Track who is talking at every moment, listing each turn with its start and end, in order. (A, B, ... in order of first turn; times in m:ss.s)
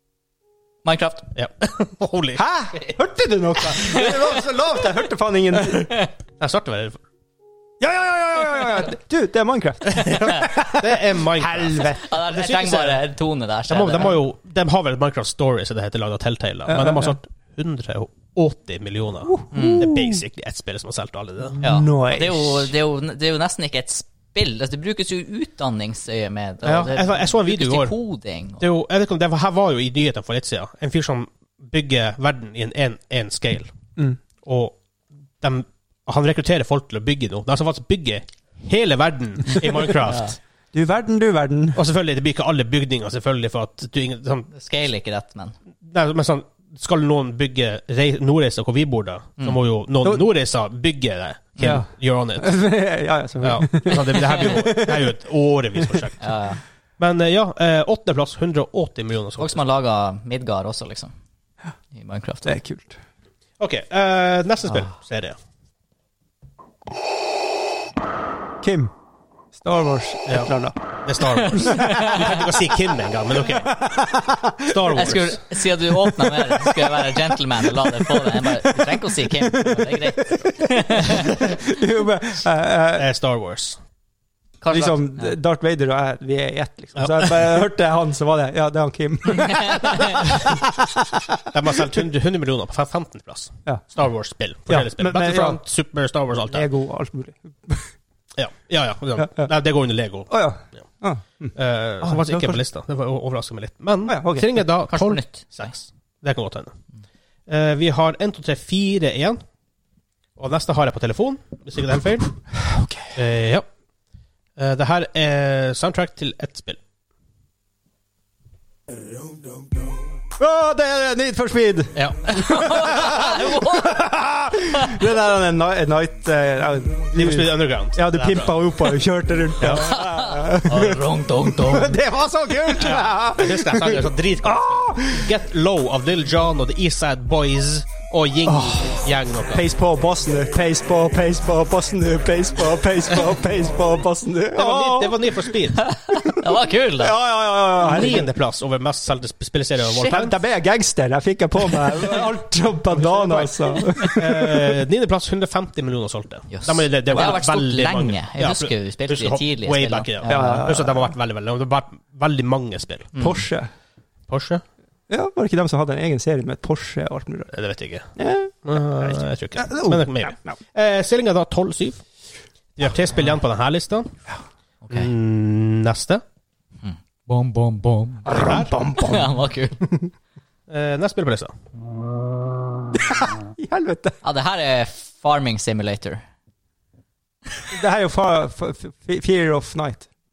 0:00.8-0:01.3 A
0:01.4-0:02.9 B
0:02.4-0:05.9 C
0:03.8-0:04.1 A
0:06.4-0:07.0 B
0:07.8-0:12.0 C
0:09.9-0:13.0 B
0:11.9-0:14.2 A
0:13.7-0:21.6 B
0:16.7-0:17.2 C
0:19.3-0:20.2 C
0:19.5-0:19.9 A
0:21.5-0:22.7 C
0:21.6-0:28.6 A
0:26.6-0:27.9 B
0:28.6-0:33.7 B
0:34.4-0:34.8 B
0:35.4-0:40.3 B
0:40.0-0:40.4 A
0:40.7-0:41.8 C
0:41.7-0:44.5 B
0:44.5-0:45.5 A
0:45.8-0:52.6 B
0:51.6-0:55.1 C
0:53.4-0:56.2 B
0:55.8-0:56.0 C
0:56.2-0:56.6 A
0:57.0-0:59.6 B
0:59.4-1:01.1 A
1:01.9-1:02.5 A
1:02.4-1:03.0 C
1:03.6-1:05.4 B
1:08.6-1:08.9 C
1:09.5-1:10.8 C
1:11.0-1:13.8 B
1:11.5-1:12.4 A
1:11.6-1:12.4 C
1:13.5-1:14.9 C
1:14.6-1:15.4 B
1:14.9-1:21.4 A
1:16.0-1:17.0 C
1:17.8-1:23.1 C
1:22.9-1:23.8 B
1:24.6-1:25.3 A
1:24.7-1:31.4 C
1:27.0-1:27.3 B
1:29.3-1:30.2 A
1:31.5-1:36.7 B
1:34.7-1:35.6 C
1:36.5-1:37.9 C
1:38.4-1:40.3 B
1:39.2-1:39.5 C
1:40.3-1:42.6 C
1:41.5-1:46.7 B
1:44.1-1:44.6 C
1:44.9-1:45.7 A
1:47.5-1:49.4 B
1:50.4-1:52.4 B
1:52.5-1:53.2 C
1:53.1-1:53.6 B
1:54.6-1:56.8 B
1:59.1-2:15.3 C
2:01.9-2:02.3 B
2:02.3-2:04.0 A
2:07.1-2:08.6 B
2:09.8-2:11.9 A
2:12.7-2:19.6 B
2:18.4-2:19.0 C
2:19.5-2:25.4 C
2:24.5-2:25.9 B
2:25.8-2:27.2 A
2:27.0-2:28.3 C
2:27.8-2:30.3 B
2:30.0-2:34.8 C
2:32.9-2:43.1 B
2:36.5-2:40.7 A
2:40.2-2:41.1 C
2:43.1-2:43.4 A
2:43.2-2:43.7 C
2:44.3-2:44.6 B
2:45.1-2:47.5 C
2:47.5-2:48.1 B
2:48.2-2:50.6 C
2:48.6-2:52.0 B
2:52.8-2:54.1 B
2:54.8-2:55.1 A
2:54.9-2:56.2 B
2:56.8-2:59.8 A
2:58.2-2:59.4 C
2:58.3-2:58.7 B
3:00.7-3:01.5 B
3:03.1-3:04.2 C
3:04.2-3:06.2 A
3:07.7-3:10.1 C